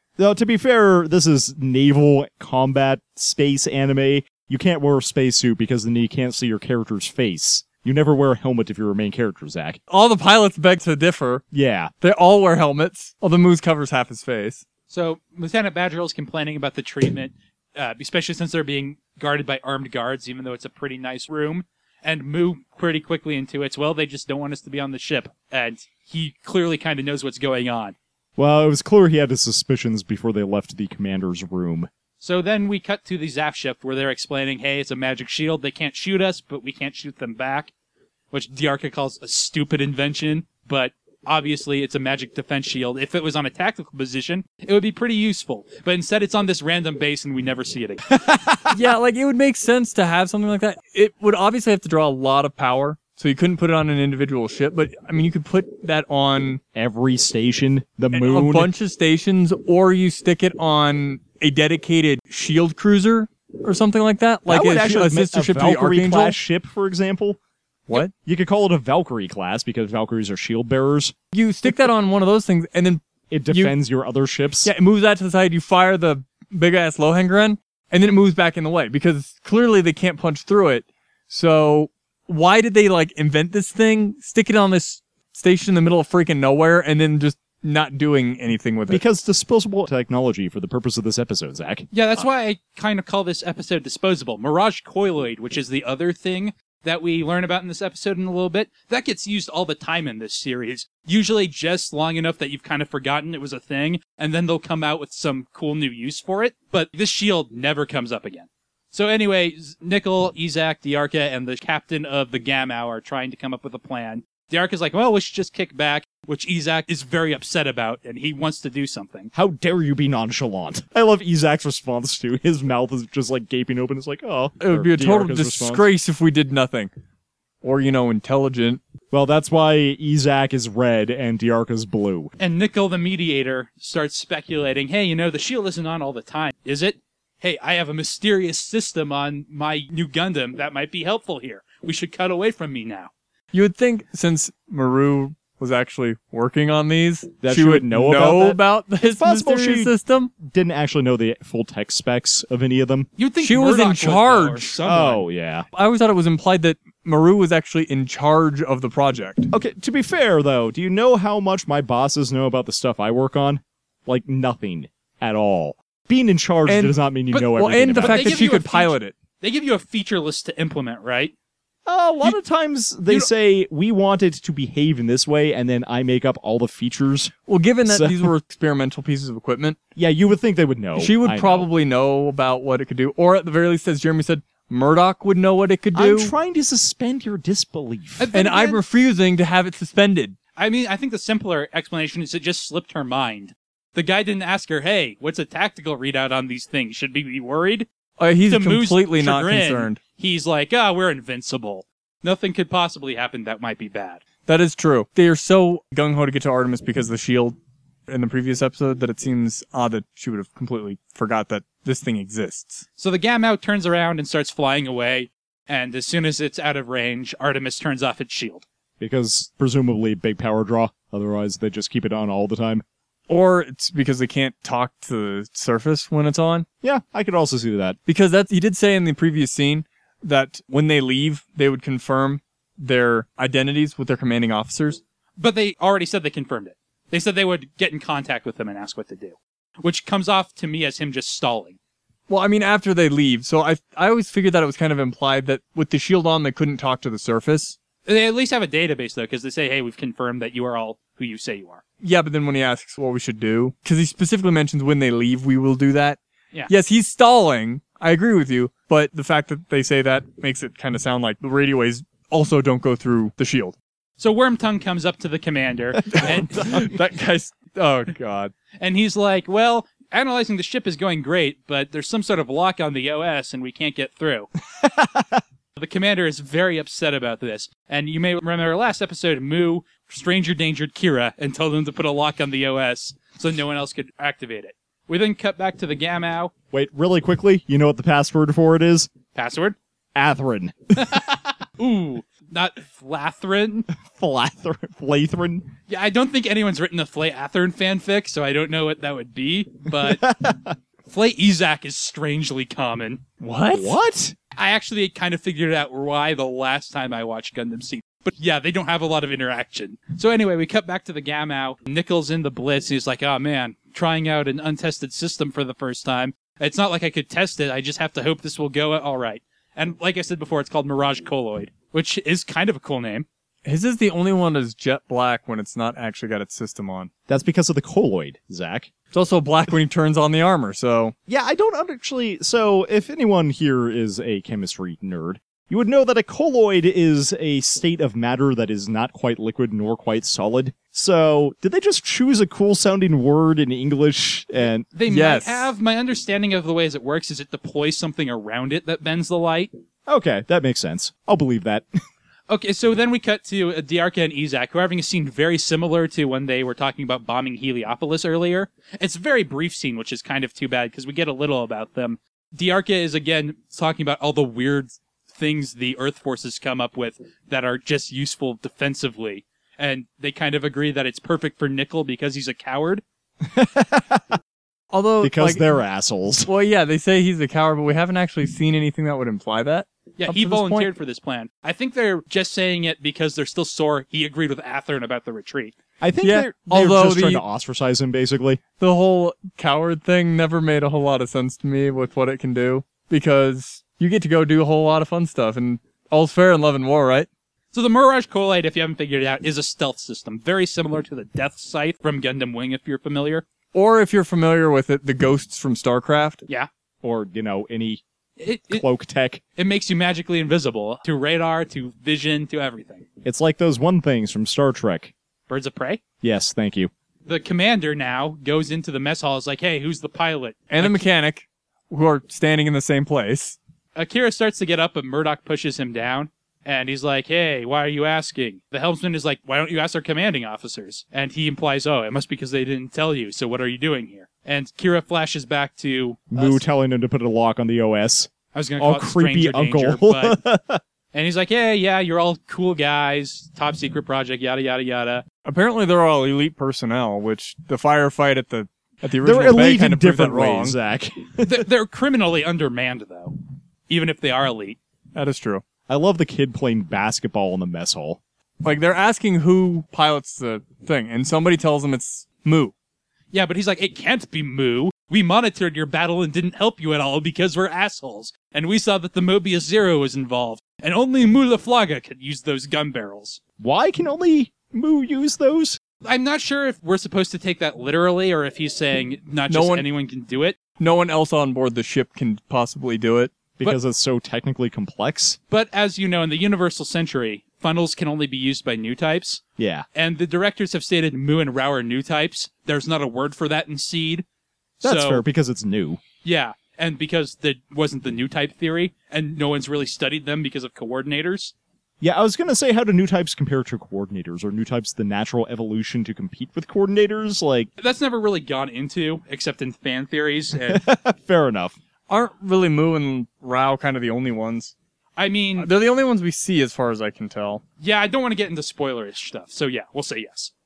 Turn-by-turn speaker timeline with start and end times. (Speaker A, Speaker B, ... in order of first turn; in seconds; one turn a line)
Speaker A: 0.2-9.8
Speaker B: 9.9-11.4
Speaker A: 11.5-11.9
Speaker B: 12.0-14.6
Speaker C: 14.9-27.9
Speaker A: 28.4-31.9
Speaker C: 32.2-37.7
Speaker C: 38.3-48.0
Speaker A: 48.1-48.8
Speaker B: 48.7-56.6
Speaker A: 56.7-58.7
Speaker B: 58.1-66.3
Speaker A: 64.5-67.4
Speaker A: 68.0-71.1
Speaker B: 71.3-73.7
Speaker A: 73.3-74.7
Speaker B: 74.6-89.0
Speaker A: 88.9-91.9
Speaker C: 91.9-119.3
Speaker A: 119.3-125.9
Speaker B: 124.6-126.9
Speaker B: 127.6-128.8
Speaker A: 129.1-132.3
Speaker C: 132.4-143.1
Speaker B: 143.5-150.3
Speaker A: 147.4-153.1
Speaker C: 153.2-155.2
Speaker B: 153.4-154.7
Speaker A: 154.8-155.7
Speaker B: 155.7-159.5
Speaker A: 159.5-168.5
Speaker B: 166.7-169.1
Speaker C: 168.0-171.3
Speaker A: 171.8-177.3
Speaker B: 177.5-179.8
Speaker A: 177.8-178.3
Speaker A: 179.9-181.7
Speaker B: 180.9-186.3
Speaker A: 185.9-188.3
Speaker C: 188.2-188.8
Speaker B: 188.3-190.3
Speaker C: 190.6-197.9
Speaker B: 198.2-200.0
Speaker C: 198.5-204.2
Speaker B: 204.5-207.6
Speaker B: 208.1-212.8
Speaker C: 213.0-218.6
Speaker A: 219.0-222.8
Speaker B: 223.3-226.7
Speaker A: 226.8-228.0
Speaker B: 228.1-235.0
Speaker C: 235.4-241.8
Speaker B: 242.3-247.8
Speaker C: 248.1-251.8
Speaker B: 252.0-256.2
Speaker B: 256.7-263.8
Speaker C: 264.2-266.8
Speaker A: 266.1-267.0
Speaker B: 266.1-268.5
Speaker C: 268.8-274.5
Speaker A: 274.8-275.4
Speaker C: 275.8-286.5
Speaker A: 286.7-289.1
Speaker C: 289.3-289.8
Speaker A: 290.1-291.4
Speaker C: 291.1-293.9
Speaker A: 293.9-295.7
Speaker C: 295.9-300.2
Speaker A: 300.0-300.8
Speaker C: 301.0-303.2
Speaker B: 303.4-304.0
Speaker A: 303.7-304.4
Speaker C: 304.5-323.3
Speaker B: 323.6-327.1
Speaker A: 327.3-328.9
Speaker B: 329.1-331.1
Speaker A: 331.3-344.9
Speaker C: 344.9-349.7
Speaker B: 345.1-345.7
Speaker A: 350.1-351.9
Speaker C: 352.5-373.0
Speaker A: 373.4-374.4
Speaker B: 374.9-375.7
Speaker A: 375.2-376.5
Speaker B: 376.4-380.9
Speaker C: 380.2-385.7
Speaker A: 386.0-388.6
Speaker B: 386.2-387.4
Speaker B: 388.8-397.3
Speaker C: 397.7-403.4
Speaker B: 403.7-406.4
Speaker A: 407.0-408.0
Speaker C: 408.4-408.8
Speaker A: 408.7-409.4
Speaker C: 409.6-413.0
Speaker A: 413.2-415.1
Speaker C: 415.5-416.0
Speaker A: 416.2-416.9
Speaker C: 417.2-421.0
Speaker B: 420.7-423.6
Speaker C: 423.9-436.6
Speaker A: 436.3-440.8
Speaker C: 438.5-440.4
Speaker C: 441.1-445.2
Speaker B: 445.4-450.8
Speaker A: 449.2-451.7
Speaker C: 451.4-453.4
Speaker C: 453.9-454.8
Speaker B: 455.1-455.6
Speaker A: 455.9-458.2
Speaker B: 458.6-462.7
Speaker C: 463.3-473.4
Speaker A: 473.6-475.8
Speaker C: 476.0-480.6
Speaker B: 479.5-479.9
Speaker B: 480.8-483.3
Speaker A: 483.6-485.4
Speaker C: 485.5-489.4
Speaker A: 489.6-489.9
Speaker C: 489.9-494.2
Speaker C: 494.8-495.2
Speaker A: 494.8-496.0
Speaker C: 496.2-501.5
Speaker A: 502.0-507.7
Speaker C: 507.8-510.9
Speaker A: 510.7-511.8
Speaker B: 512.1-514.7
Speaker C: 515.1-515.7
Speaker B: 515.6-517.6
Speaker C: 517.8-520.5